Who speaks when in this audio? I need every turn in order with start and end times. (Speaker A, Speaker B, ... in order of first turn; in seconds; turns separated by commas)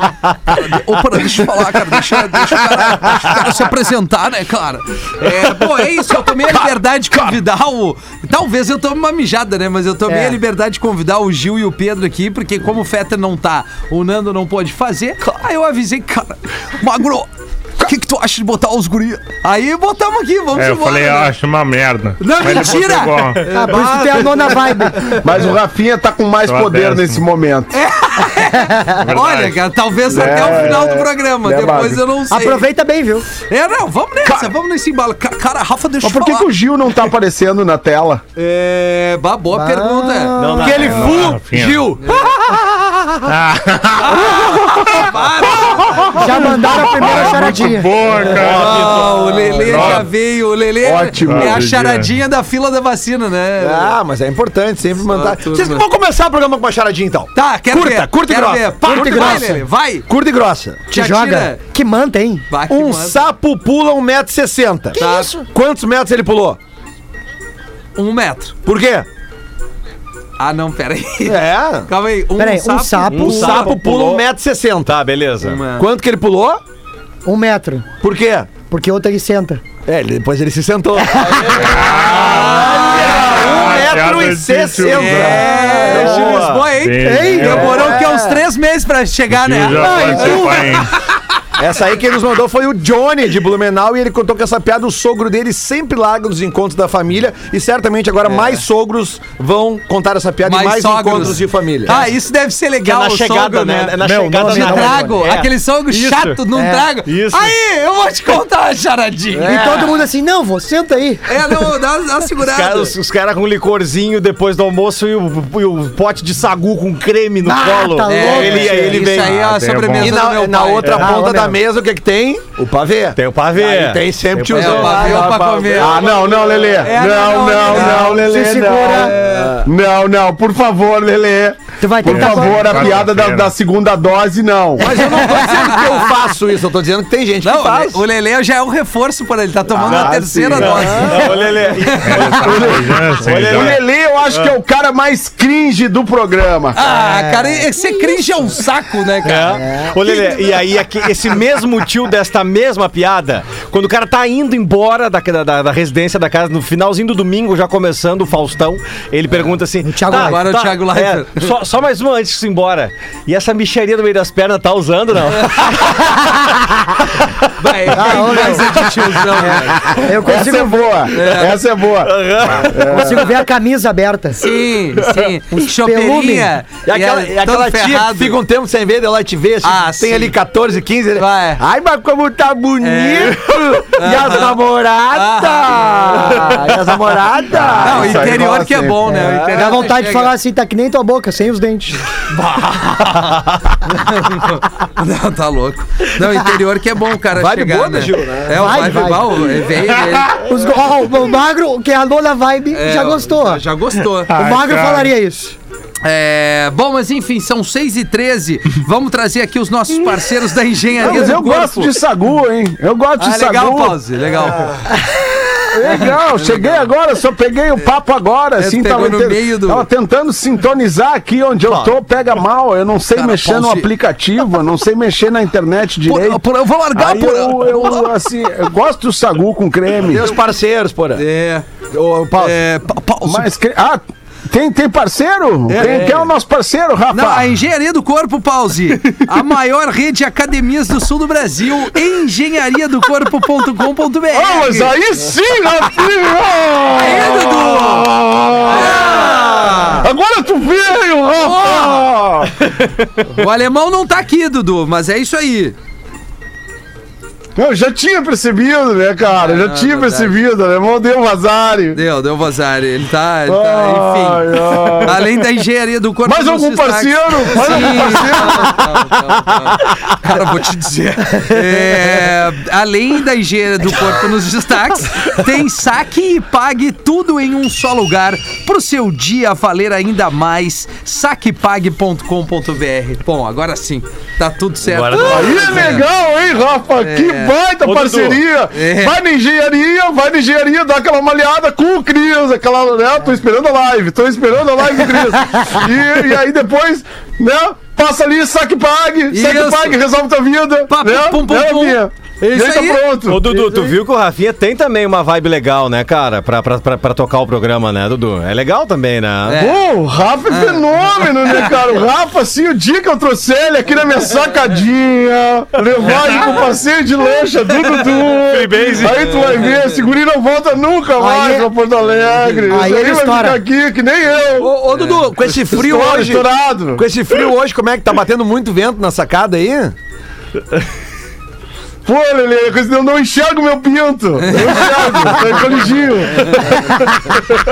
Speaker A: 0.5-17.3, Speaker B: 10.1-10.4, Speaker A: 17.8-21.3, Speaker C: 20.6-23.5, Speaker A: 22.2-25.1, Speaker B: 23.4-25.1, Speaker D: 25.0-27.7, Speaker C: 26.4-27.2, Speaker A: 27.7-32.7, Speaker C: 28.9-30.7, Speaker D: 30.1-32.0, Speaker B: 32.3-33.3, Speaker A: 33.4-36.5, Speaker D: 34.2-34.5, Speaker D: 36.0-38.2, Speaker A: 38.4-40.3, Speaker B: 39.5-40.8, Speaker E: 40.4-41.3, Speaker F: 40.6-43.2, Speaker C: 40.7-41.9, Speaker A: 42.0-42.3, Speaker C: 43.2-49.1, Speaker A: 44.0-46.2, Speaker B: 46.1-47.9, Speaker E: 48.2-49.9, Speaker A: 48.4-53.9, Speaker C: 49.6-50.1, Speaker D: 50.8-51.6, Speaker C: 51.2-52.1, Speaker F: 53.6-60.9, Speaker A: 55.0-55.8, Speaker A: 57.3-60.1, Speaker B: 58.8-59.6, Speaker B: 60.9-62.4, Speaker A: 60.9-61.6, Speaker A: 62.5-63.2, Speaker F: 62.7-66.6, Speaker A: 65.0-65.4, Speaker B: 65.0-65.4, Speaker A: 68.0-68.5, Speaker F: 68.7-69.1, Speaker A: 70.4-73.7, Speaker F: 71.2-71.9, Speaker B: 72.4-73.5, Speaker E: 73.1-74.2, Speaker F: 73.2-75.0, Speaker E: 74.8-75.6, Speaker A: 75.4-75.8, Speaker F: 75.8-76.6, Speaker B: 77.2-77.8, Speaker F: 78.0-78.5, Speaker B: 78.6-79.6, Speaker F: 79.8-86.1, Speaker A: 81.3-83.8, Speaker C: 81.5-85.5, Speaker E: 81.7-82.1, Speaker A: 84.8-91.1, Speaker E: 85.7-86.7, Speaker B: 85.7-86.0, Speaker C: 86.2-88.0, Speaker B: 87.0-88.1, Speaker F: 87.5-88.3, Speaker C: 89.3-90.9, Speaker B: 89.7-90.8, Speaker F: 91.6-102.0, Speaker A: 100.5-109.6, Speaker E: 102.8-106.4, Speaker B: 104.0-105.2, Speaker B: 106.5-106.9, Speaker E: 107.0-107.5, Speaker F: 109.3-110.0, Speaker B: 109.5-111.6, Speaker A: 111.2-112.9, Speaker E: 112.4-119.4, Speaker B: 117.4-119.1, Speaker A: 118.1-121.2, Speaker C: 119.1-120.2, Speaker F: 120.0-127.0, Speaker B: 120.9-121.6, Speaker E: 123.1-125.3, Speaker A: 124.5-126.2, Speaker D: 125.7-129.1, Speaker A: 126.8-128.3, Speaker B: 127.7-129.1, Speaker A: 128.8-129.6, Speaker F: 129.1-129.7, Speaker D: 129.6-135.0, Speaker B: 131.8-132.9, Speaker C: 132.0-133.5, Speaker F: 134.8-138.0, Speaker B: 135.0-135.6, Speaker A: 135.0-136.1, Speaker A: 137.4-142.5, Speaker F: 139.7-140.8, Speaker E: 139.8-144.6, Speaker D: 140.4-140.7, Speaker B: 141.0-141.3, Speaker C: 142.0-143.8, Speaker D: 142.4-146.8, Speaker A: 146.7-149.7, Speaker B: 147.1-148.2, Speaker E: 149.2-166.0, Speaker B: 149.7-150.2, Speaker B: 159.8-160.4, Speaker A: 160.1-161.5, Speaker A: 165.3-165.7, Speaker A: 167.6-170.1, Speaker B: 167.9-170.9, Speaker D: 170.2-173.3, Speaker A: 171.1-171.6, Speaker E: 172.0-173.2, Speaker B: 172.8-174.4, Speaker A: 174.3-178.4, Speaker B: 175.6-176.5, Speaker F: 176.8-188.3, Speaker A: 179.6-180.3, Speaker A: 181.2-181.6, Speaker A: 182.8-184.6, Speaker A: 185.1-186.7, Speaker D: 187.5-189.1, Speaker A: 187.8-190.3, Speaker F: 189.1-189.8, Speaker B: 189.5-192.0, Speaker A: 192.3-200.4, Speaker F: 197.3-199.3, Speaker B: 198.5-199.6, Speaker B: 200.3-203.6, Speaker A: 202.7-204.4, Speaker C: 204.3-205.1, Speaker B: 204.3-205.6, Speaker A: 206.0-211.9, Speaker D: 211.0-214.0, Speaker A: 213.2-216.9, Speaker D: 215.7-226.4, Speaker A: 218.6-219.9, Speaker E: 221.6-222.0, Speaker A: 223.1-223.9, Speaker A: 226.0-228.1, Speaker D: 226.9-230.3, Speaker F: 230.0-231.2, Speaker A: 231.2-231.7, Speaker F: 231.9-232.6, Speaker A: 232.3-233.5, Speaker D: 233.2-237.5, Speaker A: 235.7-236.1, Speaker F: 235.7-236.3, Speaker A: 237.1-244.9, Speaker D: 244.3-252.6, Speaker A: 247.0-248.1, Speaker A: 248.7-250.1, Speaker A: 251.4-252.1, Speaker E: 252.6-252.9, Speaker A: 253.2-255.7, Speaker D: 257.6-262.0, Speaker A: 259.3-260.4, Speaker A: 261.9-286.1, Speaker D: 263.5-265.5, Speaker D: 266.2-269.2, Speaker E: 284.8-286.0, Speaker D: 285.2-303.9, Speaker A: 287.0-287.6, Speaker E: 287.8-288.4, Speaker A: 288.7-289.2, Speaker A: 299.3-300.0, Speaker A: 300.9-303.0, Speaker E: 303.3-309.6, Speaker A: 309.4-309.9, Speaker D: 309.6-324.7, Speaker A: 310.5-310.8, Speaker A: 311.4-311.8, Speaker E: 318.4-319.6, Speaker A: 319.2-319.9, Speaker B: 321.2-321.7, Speaker B: 322.7-323.6, Speaker F: 324.6-329.9, Speaker A: 324.9-325.2, Speaker D: 325.5-327.0, Speaker D: 332.0-337.4, Speaker A: 334.4-335.2, Speaker A: 336.4-336.7